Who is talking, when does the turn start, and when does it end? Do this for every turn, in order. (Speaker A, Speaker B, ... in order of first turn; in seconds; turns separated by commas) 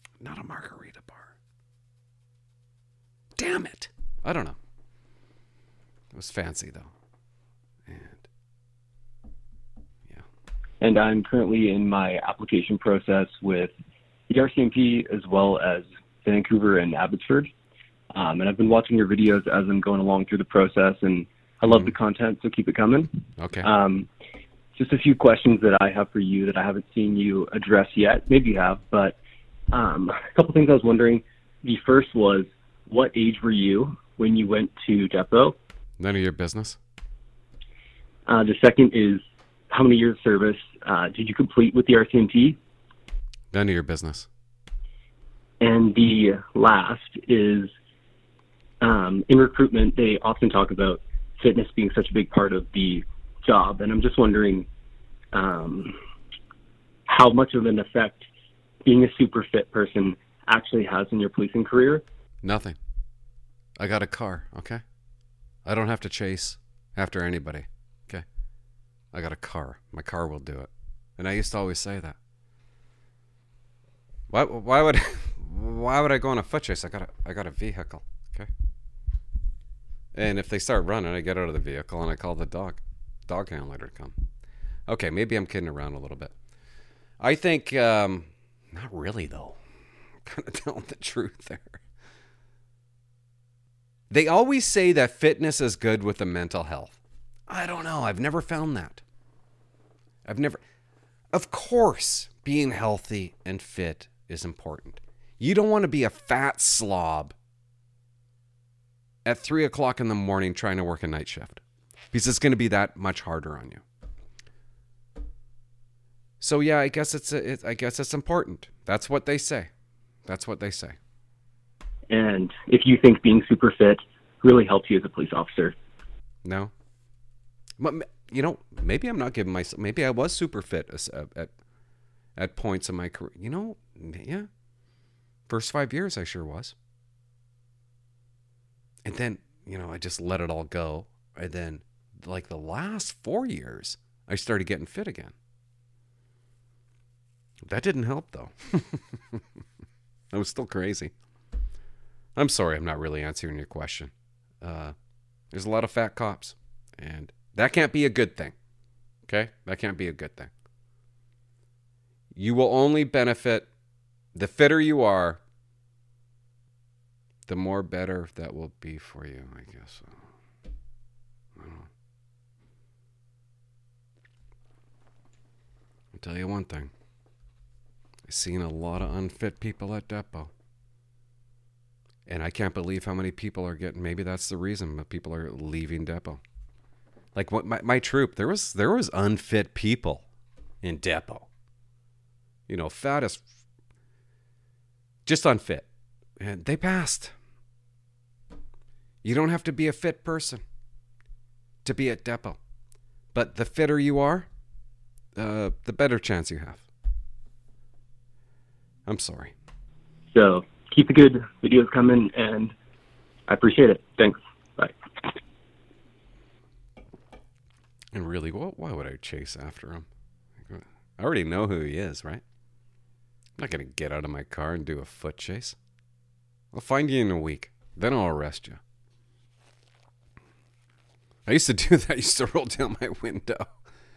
Speaker A: 0.2-1.3, Speaker A: 3.4-4.6, Speaker A: 6.1-6.9, Speaker A: 7.9-8.3, Speaker B: 10.8-13.7, Speaker B: 14.3-17.5, Speaker B: 18.1-24.1, Speaker A: 23.4-23.7, Speaker B: 24.8-29.2, Speaker B: 29.7-35.6, Speaker A: 36.0-36.8, Speaker B: 38.3-42.6, Speaker A: 43.5-44.3, Speaker B: 45.6-47.7, Speaker B: 48.8-54.7, Speaker B: 55.3-56.0, Speaker B: 57.1-58.3, Speaker B: 58.9-62.0, Speaker A: 62.4-62.8, Speaker A: 63.8-64.8, Speaker A: 65.7-68.2, Speaker A: 69.1-72.2, Speaker A: 74.3-78.5, Speaker A: 80.2-84.2, Speaker A: 84.9-86.3, Speaker A: 87.2-89.6, Speaker A: 90.2-91.8, Speaker A: 94.1-99.0, Speaker A: 100.2-100.6, Speaker A: 101.3-107.3, Speaker A: 109.3-111.6, Speaker A: 112.1-113.8, Speaker A: 116.4-119.7, Speaker A: 120.3-121.0, Speaker B: 122.1-125.8, Speaker A: 126.4-126.7, Speaker A: 127.8-131.5, Speaker A: 132.4-134.5, Speaker A: 135.5-136.8, Speaker A: 139.1-145.3, Speaker A: 147.7-149.4, Speaker A: 150.3-151.1, Speaker A: 152.4-154.1, Speaker A: 154.6-154.9, Speaker A: 155.5-158.5, Speaker A: 159.3-160.5, Speaker A: 162.3-163.7, Speaker A: 164.3-165.4, Speaker A: 167.5-170.2, Speaker A: 171.6-171.9, Speaker A: 176.1-176.9, Speaker A: 178.3-180.5, Speaker A: 182.3-186.4, Speaker A: 187.3-190.2, Speaker A: 190.8-191.5, Speaker A: 192.7-193.4, Speaker A: 195.3-195.9, Speaker A: 196.4-197.3, Speaker A: 199.2-200.6, Speaker A: 201.8-202.6, Speaker A: 203.3-204.5, Speaker A: 205.4-206.8, Speaker A: 209.1-209.5, Speaker B: 210.3-212.7, Speaker B: 213.5-215.0, Speaker A: 218.1-220.1, Speaker A: 220.7-222.4, Speaker A: 223.6-225.8, Speaker A: 226.7-228.8, Speaker A: 231.5-233.7